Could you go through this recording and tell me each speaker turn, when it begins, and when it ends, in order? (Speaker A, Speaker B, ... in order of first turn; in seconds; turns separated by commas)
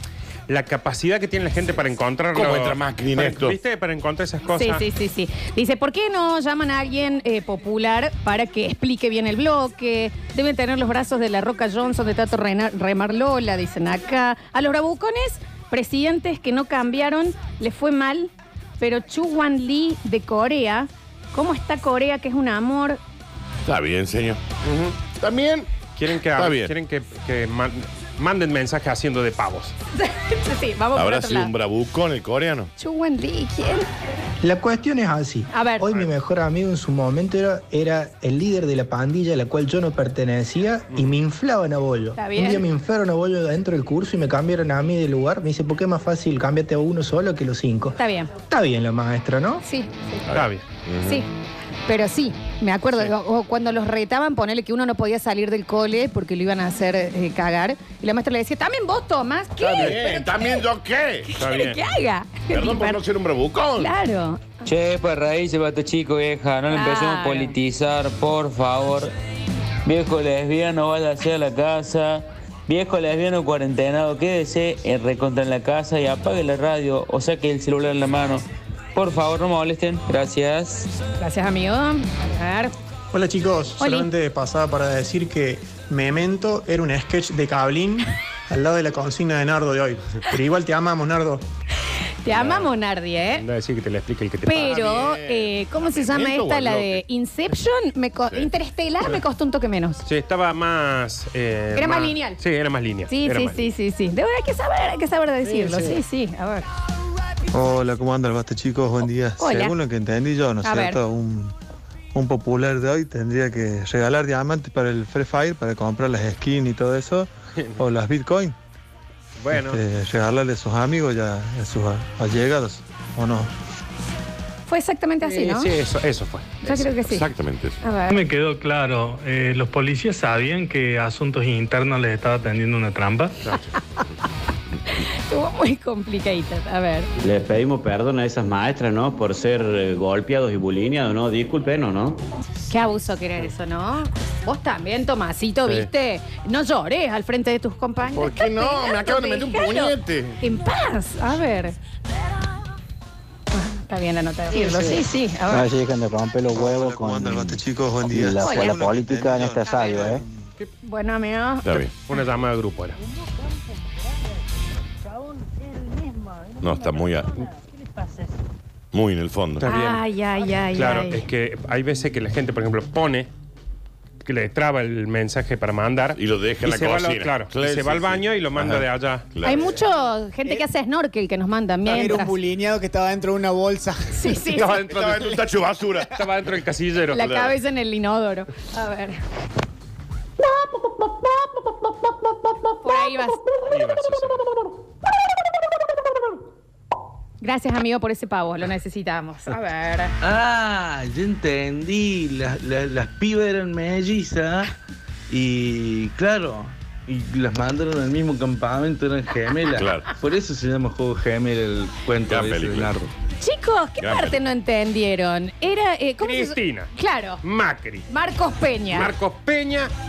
Speaker A: 0.5-4.8, Speaker B: 2.3-3.6, Speaker C: 4.5-23.0, Speaker B: 23.7-24.4, Speaker B: 25.0-25.7, Speaker A: 25.9-29.7, Speaker B: 26.4-26.7, Speaker C: 29.9-31.5, Speaker B: 31.0-32.7, Speaker C: 32.8-33.9, Speaker D: 34.4-47.9, Speaker C: 35.5-36.0, Speaker C: 42.2-42.7, Speaker C: 48.0-48.3, Speaker D: 48.5-49.6, Speaker C: 49.6-50.3, Speaker B: 50.3-51.2, Speaker A: 50.3-50.6, Speaker C: 51.0-51.3, Speaker C: 51.9-60.7, Speaker B: 59.6-61.3, Speaker C: 61.3-63.0, Speaker A: 61.4-61.8, Speaker B: 62.5-63.9, Speaker C: 63.8-64.5, Speaker E: 64.7-69.1, Speaker C: 66.7-67.6, Speaker E: 69.8-78.4, Speaker E: 78.9-80.9, Speaker C: 81.2-82.7, Speaker F: 83.1-91.4, Speaker C: 83.8-84.1, Speaker C: 92.2-93.4, Speaker A: 92.3-92.8, Speaker A: 93.3-95.0, Speaker C: 94.4-100.0, Speaker B: 94.6-97.0, Speaker A: 100.0-103.6, Speaker C: 101.7-102.4, Speaker C: 103.1-106.7, Speaker A: 105.5-106.0, Speaker G: 107.5-111.5, Speaker C: 109.4-109.7, Speaker C: 110.6-111.0, Speaker G: 112.1-118.5, Speaker A: 119.4-119.8, Speaker G: 119.7-123.5, Speaker C: 124.7-125.7, Speaker A: 125.2-126.9, Speaker C: 126.6-127.3, Speaker B: 127.2-127.8, Speaker C: 127.8-128.2, Speaker H: 128.1-133.3, Speaker C: 134.9-137.1, Speaker I: 137.2-142.2, Speaker C: 142.7-151.8, Speaker B: 148.2-150.4, Speaker C: 153.5-155.7, Speaker J: 155.7-156.2, Speaker G: 156.5-160.2, Speaker B: 156.5-157.6, Speaker J: 157.1-157.4, Speaker B: 158.1-160.2, Speaker J: 158.2-160.2, Speaker C: 158.4-158.8, Speaker C: 159.7-160.1, Speaker C: 160.8-161.8, Speaker B: 161.7-161.9, Speaker A: 162.0-163.0, Speaker B: 166.6-167.3, Speaker B: 168.9-169.6, Speaker A: 169.6-170.0, Speaker C: 169.6-171.2, Speaker A: 170.7-173.3, Speaker A: 174.2-179.3, Speaker B: 176.2-179.8, Speaker C: 179.4-182.4, Speaker K: 181.9-184.2, Speaker C: 184.1-184.8, Speaker A: 184.6-185.3, Speaker B: 184.7-186.1, Speaker A: 186.1-187.2, Speaker C: 187.1-189.2, Speaker B: 187.2-187.5, Speaker C: 192.8-193.5, Speaker A: 193.7-194.4, Speaker C: 197.4-200.1, Speaker L: 200.2-204.7, Speaker L: 205.3-213.1, Speaker B: 212.3-212.9, Speaker C: 213.4-217.4, Speaker B: 214.0-214.4, Speaker A: 216.2-218.1, Speaker C: 218.1-219.1, Speaker A: 218.9-219.9